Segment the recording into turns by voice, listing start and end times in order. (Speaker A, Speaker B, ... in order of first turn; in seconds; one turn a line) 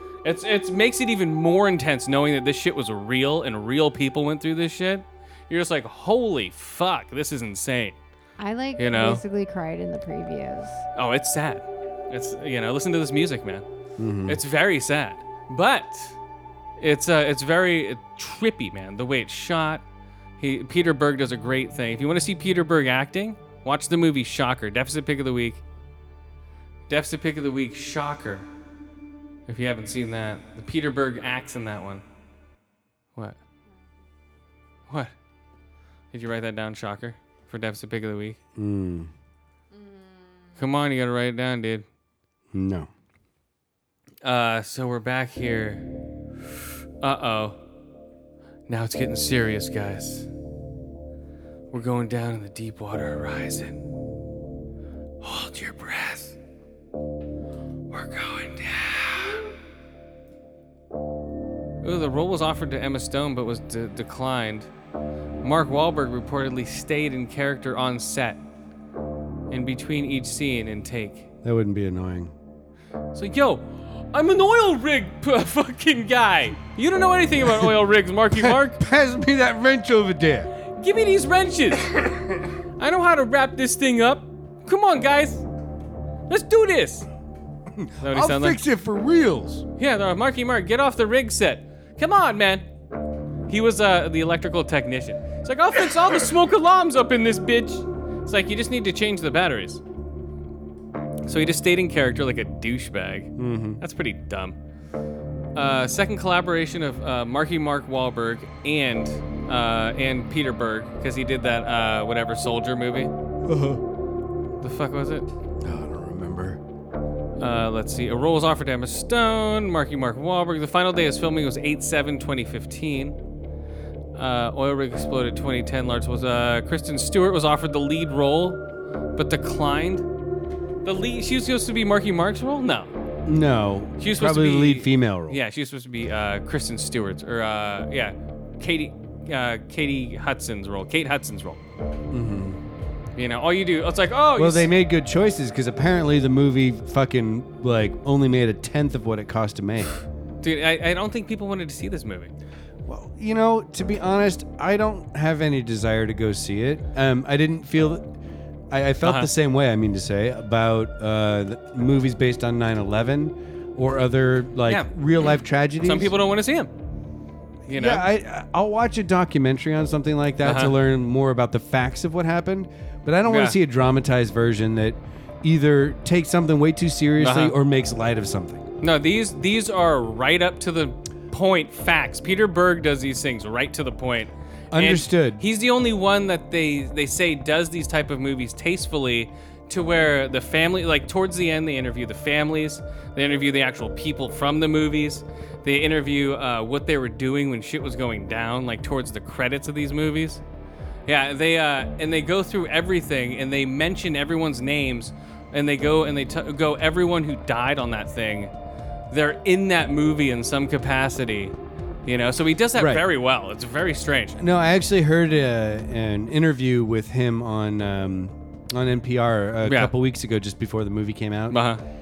Speaker A: 0.2-8.0
Speaker B: 8.4-10.8
Speaker A: 8.8-9.2
Speaker A: 10.9-13.7
Speaker C: 14.0-14.4
Speaker A: 14.3-16.1
Speaker A: 16.8-19.8
Speaker A: 20.4-25.6
Speaker A: 26.9-28.5
Speaker A: 29.5-32.0
Speaker A: 36.1-38.4
Speaker C: 38.5-39.1
Speaker A: 40.6-41.8
Speaker C: 42.5-42.9
Speaker A: 44.2-45.9
Speaker A: 47.0-47.6
Speaker A: 48.7-50.3
Speaker A: 51.7-53.8
Speaker A: 55.2-56.4
Speaker A: 57.9-59.5
Speaker A: 61.8-64.7
Speaker A: 65.4-68.4
Speaker A: 69.5-71.3
Speaker C: 71.4-72.3
Speaker A: 73.1-78.8
Speaker C: 77.4-77.7
Speaker C: 78.3-80.5
Speaker A: 80.7-82.1
Speaker A: 82.8-85.4
Speaker A: 86.3-87.1
Speaker C: 87.8-89.7
Speaker A: 88.0-88.6
Speaker A: 89.8-92.7
Speaker A: 93.5-99.8
Speaker A: 101.2-104.5
Speaker C: 103.4-103.8
Speaker A: 105.5-113.1
Speaker C: 113.5-113.8
Speaker A: 114.6-115.3
Speaker C: 115.6-116.6
Speaker A: 117.4-123.2
Speaker A: 124.1-128.6
Speaker A: 129.1-130.1
Speaker A: 130.8-132.9
Speaker C: 133.3-135.4
Speaker A: 134.0-141.6
Speaker C: 142.1-142.6
Speaker A: 143.2-144.7
Speaker C: 144.3-149.9
Speaker A: 150.4-152.3
Speaker C: 152.8-158.1
Speaker C: 158.7-166.1
Speaker A: 159.0-159.3
Speaker A: 165.8-166.7
Speaker A: 167.7-168.1
Speaker C: 167.7-178.7
Speaker A: 170.4-170.7
Speaker A: 173.2-173.6
Speaker A: 177.2-177.5
Speaker A: 178.8-200.4
Speaker C: 184.7-185.4
Speaker A: 201.1-208.5
Speaker A: 209.1-211.5
Speaker A: 212.1-214.4
Speaker C: 212.7-213.1
Speaker C: 214.4-221.7
Speaker A: 219.6-219.9
Speaker A: 221.5-221.8